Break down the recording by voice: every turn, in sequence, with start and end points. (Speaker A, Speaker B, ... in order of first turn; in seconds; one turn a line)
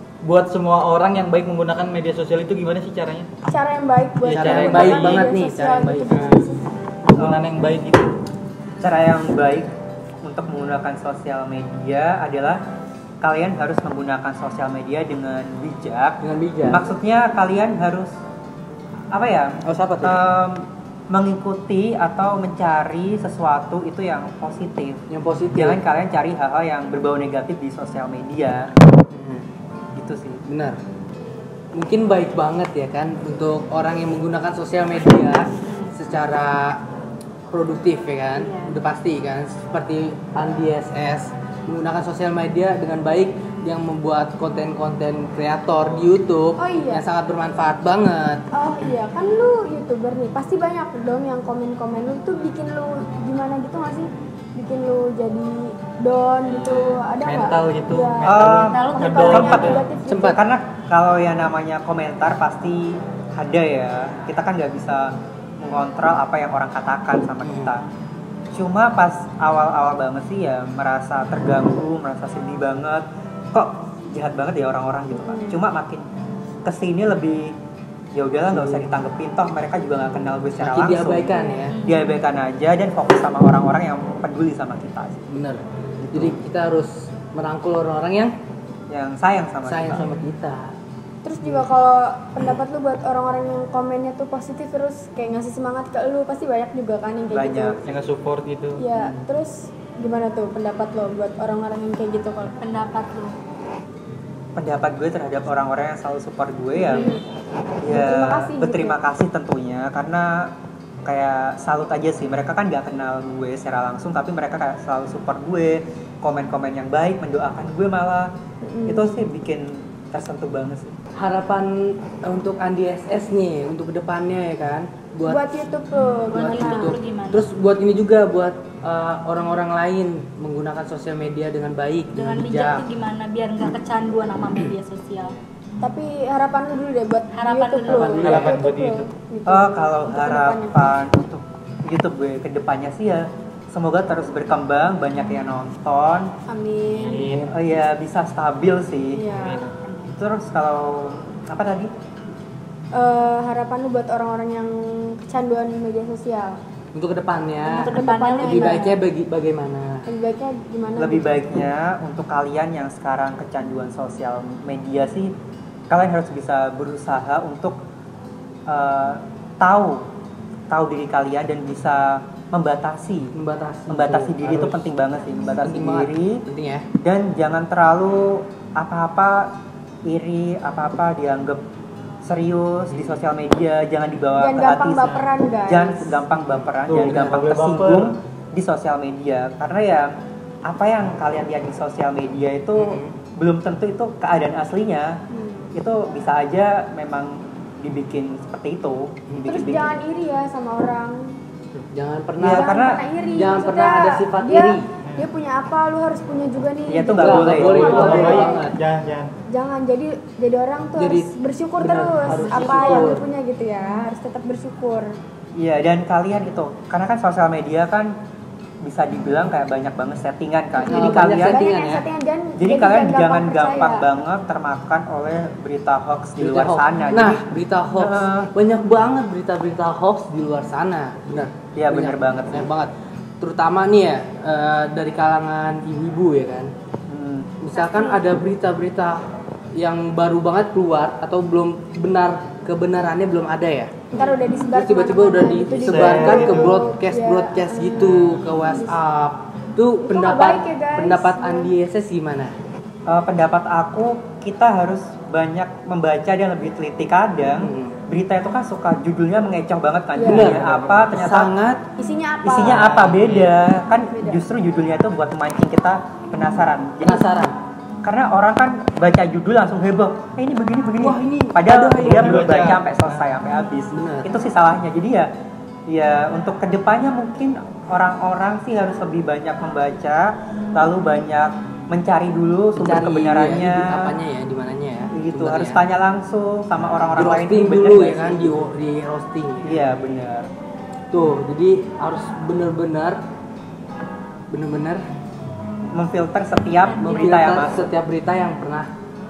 Speaker A: 0.2-3.3
Speaker B: 3.5-6.6
Speaker A: 4.2-5.3
Speaker C: 4.3-6.5
Speaker A: 7.0-8.1
Speaker D: 7.2-7.5
Speaker D: 8.8-9.7
Speaker D: 10.2-12.6
Speaker D: 13.2-18.1
Speaker C: 16.2-16.8
Speaker D: 19.1-25.0
Speaker C: 19.6-20.2
Speaker C: 25.1-25.8
Speaker D: 25.6-28.7
Speaker C: 29.1-29.5
Speaker D: 29.9-30.4
Speaker C: 30.5-30.8
Speaker C: 31.8-36.8
Speaker E: 35.7-35.9
Speaker C: 37.5-48.4
Speaker E: 38.4-38.8
Speaker B: 46.6-47.0
Speaker B: 48.5-60.4
Speaker A: 56.4-59.9
Speaker D: 58.2-59.8
Speaker E: 58.7-59.8
Speaker C: 60.1-60.4
Speaker D: 60.3-67.8
Speaker C: 67.4-67.8
Speaker D: 68.5-76.0
Speaker B: 75.1-75.6
Speaker D: 76.7-77.5
Speaker D: 78.1-81.3
Speaker C: 78.5-78.9
Speaker C: 80.6-81.7
Speaker B: 81.3-81.6
Speaker E: 81.7-82.2
Speaker D: 81.8-85.2
Speaker C: 85.3-88.3
Speaker D: 88.9-90.0
Speaker C: 89.7-90.8
Speaker B: 91.2-97.9
Speaker C: 91.4-91.7
Speaker D: 97.3-97.8
Speaker A: 97.8-98.8
Speaker B: 98.8-102.5
Speaker E: 102.6-103.3
Speaker D: 104.6-107.1
Speaker B: 106.8-107.2
Speaker D: 107.8-110.5
Speaker B: 107.9-109.0
Speaker D: 111.1-118.3
Speaker B: 118.6-119.2
Speaker D: 118.9-120.9
Speaker C: 121.2-125.6
Speaker B: 125.3-127.0
Speaker E: 126.3-127.5
Speaker C: 126.3-132.8
Speaker E: 132.2-135.4
Speaker B: 135.8-140.9
Speaker E: 137.3-138.5
Speaker C: 137.9-138.6
Speaker A: 137.9-139.1
Speaker D: 139.5-146.3
Speaker B: 146.5-147.3
Speaker E: 146.9-147.2
Speaker A: 147.0-147.5
Speaker D: 147.5-149.2
Speaker B: 149.1-149.7
Speaker A: 149.3-149.7
Speaker E: 149.8-150.1
Speaker D: 150.2-151.9
Speaker B: 152.9-156.6
Speaker C: 156.9-160.1
Speaker E: 157.7-159.0
Speaker B: 157.9-158.8
Speaker B: 160.1-161.5
Speaker D: 161.0-165.3
Speaker D: 165.9-167.8
Speaker D: 168.7-170.0
Speaker D: 170.7-173.3
Speaker C: 173.3-174.9
Speaker D: 173.9-176.4
Speaker C: 175.6-176.9
Speaker D: 177.0-179.5
Speaker D: 180.1-181.6
Speaker D: 182.2-190.1
Speaker C: 182.9-183.2
Speaker B: 184.4-186.2
Speaker C: 186.3-187.4
Speaker A: 186.9-188.1
Speaker D: 190.7-195.2
Speaker C: 192.8-193.2
Speaker B: 195.3-195.7
Speaker D: 195.8-200.0
Speaker C: 199.3-199.7
Speaker B: 199.5-201.4
Speaker C: 201.9-202.8
Speaker D: 202.4-203.0
Speaker B: 202.5-208.6
Speaker C: 203.3-204.9
Speaker D: 206.9-208.4
Speaker C: 207.2-208.8
Speaker A: 207.4-209.3
Speaker B: 209.5-215.1
Speaker C: 211.0-213.3
Speaker E: 212.3-213.1
Speaker D: 215.6-218.1
Speaker D: 218.8-221.6
Speaker B: 220.8-224.1
Speaker C: 220.9-222.0
Speaker D: 222.6-227.4
Speaker C: 226.4-236.7
Speaker D: 228.0-228.5
Speaker D: 231.8-232.7
Speaker D: 237.1-237.5
Speaker C: 237.6-239.2
Speaker E: 237.7-238.2
Speaker C: 239.8-252.6
Speaker B: 244.1-249.0
Speaker A: 245.7-246.9
Speaker B: 250.0-251.7
Speaker D: 253.1-261.5
Speaker C: 257.5-258.0
Speaker B: 260.1-260.6
Speaker C: 260.2-261.8
Speaker A: 260.5-261.1
Speaker B: 262.0-262.9
Speaker D: 262.4-267.3
Speaker A: 262.6-263.5
Speaker B: 264.1-264.4
Speaker C: 267.0-267.6
Speaker D: 268.1-275.3
Speaker C: 271.0-272.5
Speaker A: 272.0-273.3
Speaker C: 273.9-274.3
Speaker D: 275.9-284.1
Speaker C: 282.8-285.8
Speaker D: 285.1-288.6
Speaker C: 287.2-290.0
Speaker D: 289.6-290.5
Speaker C: 291.1-293.2
Speaker C: 294.5-295.0
Speaker D: 295.9-297.9
Speaker E: 296.8-297.6
Speaker C: 297.0-298.9